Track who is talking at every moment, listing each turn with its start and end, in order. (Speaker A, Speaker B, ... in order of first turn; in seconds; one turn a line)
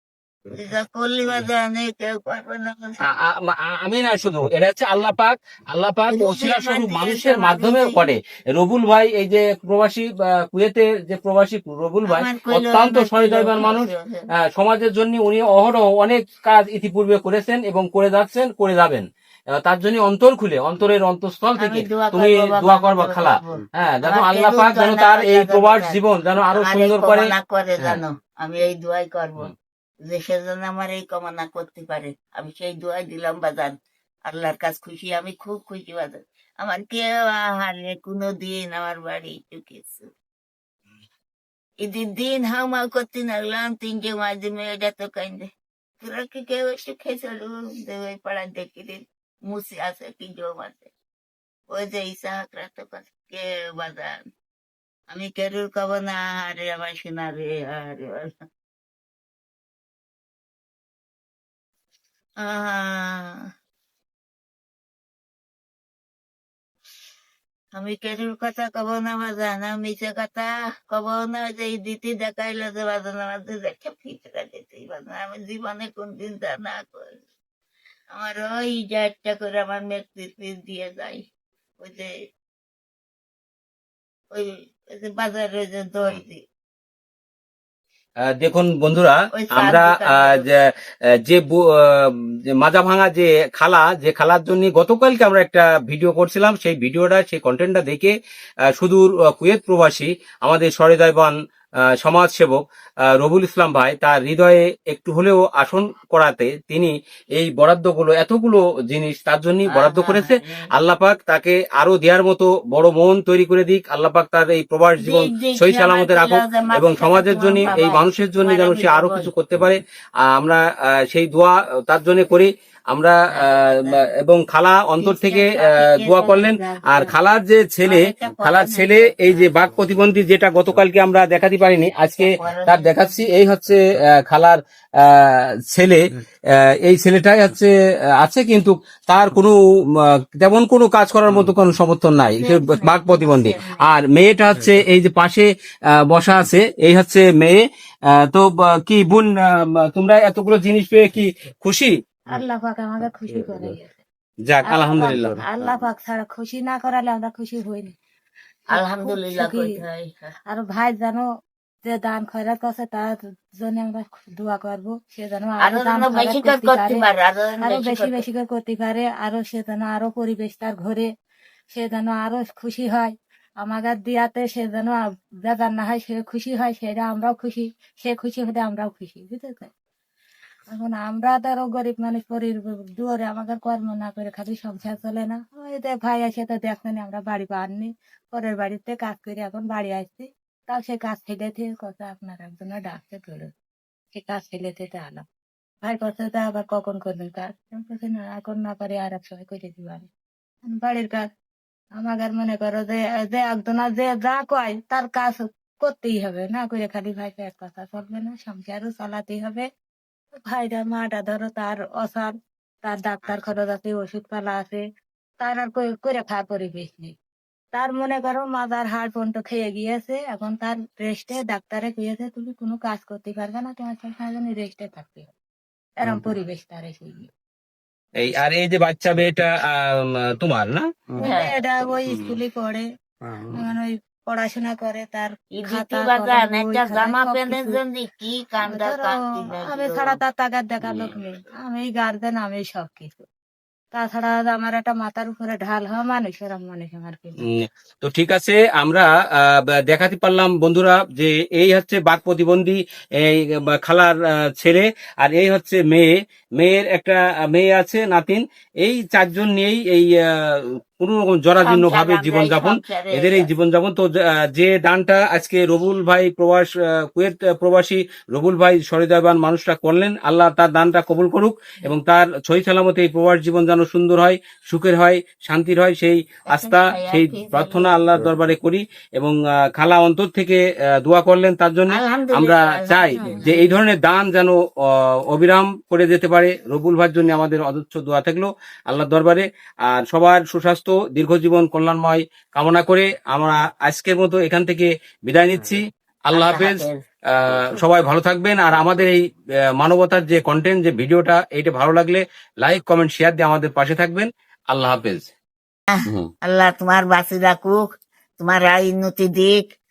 Speaker A: 0.5-3.0
Speaker B: 3.0-13.9
Speaker A: 6.1-8.1
Speaker A: 12.1-14.3
Speaker B: 14.4-27.3
Speaker A: 21.6-26.0
Speaker A: 26.5-29.5
Speaker A: 30.1-33.7
Speaker A: 34.3-40.1
Speaker A: 41.8-45.5
Speaker A: 46.0-50.9
Speaker A: 51.7-54.3
Speaker A: 55.1-58.3
Speaker A: 62.4-63.5
Speaker A: 67.7-77.2
Speaker A: 78.1-81.2
Speaker A: 81.8-82.1
Speaker A: 84.3-86.4
Speaker B: 88.3-90.6
Speaker A: 89.3-90.4
Speaker B: 91.2-98.1
Speaker B: 98.8-101.3
Speaker B: 102.0-102.6
Speaker B: 103.2-136.0
Speaker A: 109.7-110.6
Speaker A: 115.0-119.3
Speaker A: 123.3-124.0
Speaker A: 125.0-127.1
Speaker A: 127.8-129.5
Speaker A: 132.2-133.0
Speaker B: 136.8-145.5
Speaker A: 142.3-143.8
Speaker B: 146.1-147.6
Speaker B: 148.1-151.9
Speaker C: 152.3-154.0
Speaker B: 154.4-155.4
Speaker C: 154.7-157.9
Speaker A: 158.7-160.3
Speaker C: 158.7-159.7
Speaker C: 160.5-161.2
Speaker C: 161.8-167.0
Speaker A: 165.6-168.2
Speaker C: 167.6-171.1
Speaker C: 171.7-179.7
Speaker C: 180.7-193.5
Speaker C: 194.1-195.2
Speaker C: 195.8-200.1
Speaker C: 200.7-201.2
Speaker C: 202.0-209.7
Speaker C: 210.5-212.3
Speaker C: 212.8-214.8
Speaker C: 215.4-217.1
Speaker C: 217.7-225.3
Speaker C: 226.0-227.3
Speaker B: 228.2-230.9
Speaker C: 231.2-232.8
Speaker A: 231.2-231.6
Speaker C: 233.5-237.8
Speaker A: 235.5-240.2
Speaker C: 238.7-243.2
Speaker C: 243.9-247.4
Speaker B: 247.4-284.6
Speaker A: 261.6-263.5
Speaker A: 276.5-278.0
Speaker A: 281.9-283.8
Speaker B: 285.3-296.8
Speaker A: 296.3-297.0
Speaker B: 297.4-299.2
Speaker B: 299.8-305.3
Speaker A: 305.9-307.8
Speaker A: 308.4-309.6